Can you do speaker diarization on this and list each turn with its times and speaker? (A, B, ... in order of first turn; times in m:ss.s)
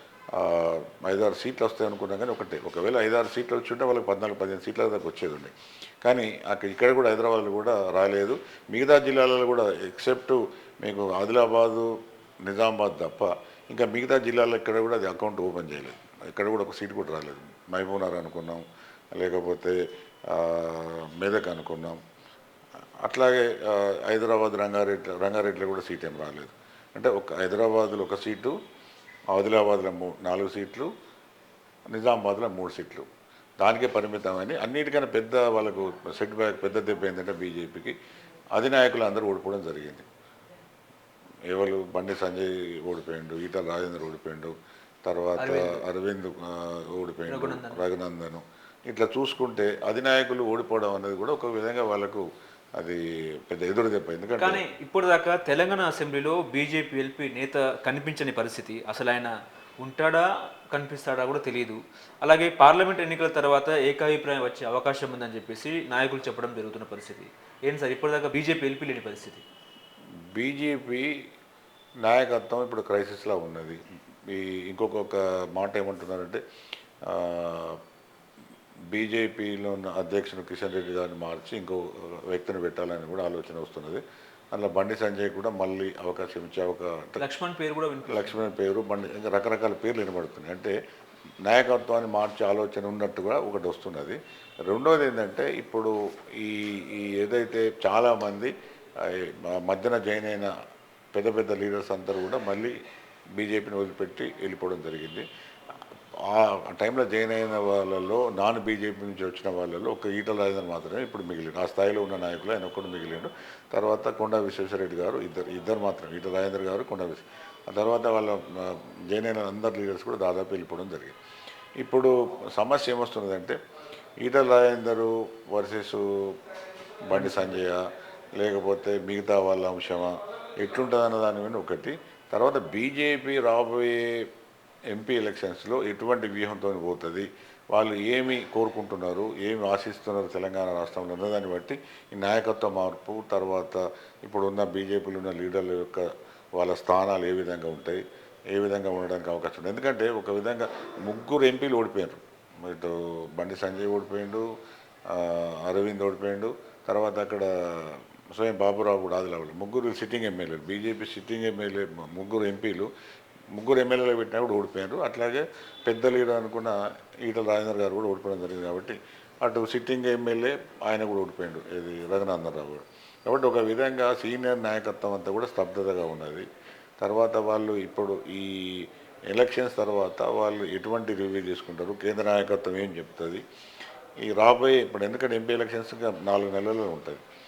0:00.3-0:05.5 A
0:06.0-0:11.9 A
0:12.4-0:18.6 A
0:19.2-0:19.8 A
0:20.3-0:22.0 A
0:23.0-0:28.6 A
0:29.3-0:30.9 A
0:31.9-0:33.1 A
0:33.6-0:38.0 A
0:38.6-0:40.0 A
0:41.5-0:44.5 A
0:45.1-0:52.3 A
0:45.4-0:45.8 B
0:47.3-0:47.8 B
0:52.8-0:54.6 A
0:54.4-1:09.4 B
1:10.3-1:11.1 A
1:12.0-1:16.4 A
1:17.1-1:17.8 A
1:18.9-1:27.3 A
1:27.2-1:28.5 B
1:28.1-1:30.8 A
1:31.4-1:38.5 A
1:39.1-1:40.5 A
1:41.1-1:42.7 A
1:43.4-1:45.2 A
1:46.3-2:01.2 A
2:01.8-2:03.6 A
2:04.2-2:06.4 A
2:07.0-2:07.9 A
2:07.1-2:07.5 B
2:08.4-2:14.3 A
2:14.9-2:28.0 A
2:28.5-2:34.4 A
2:35.1-2:42.9 A
2:43.5-2:56.4 A
2:57.0-3:03.4 A
3:04.2-3:07.2 A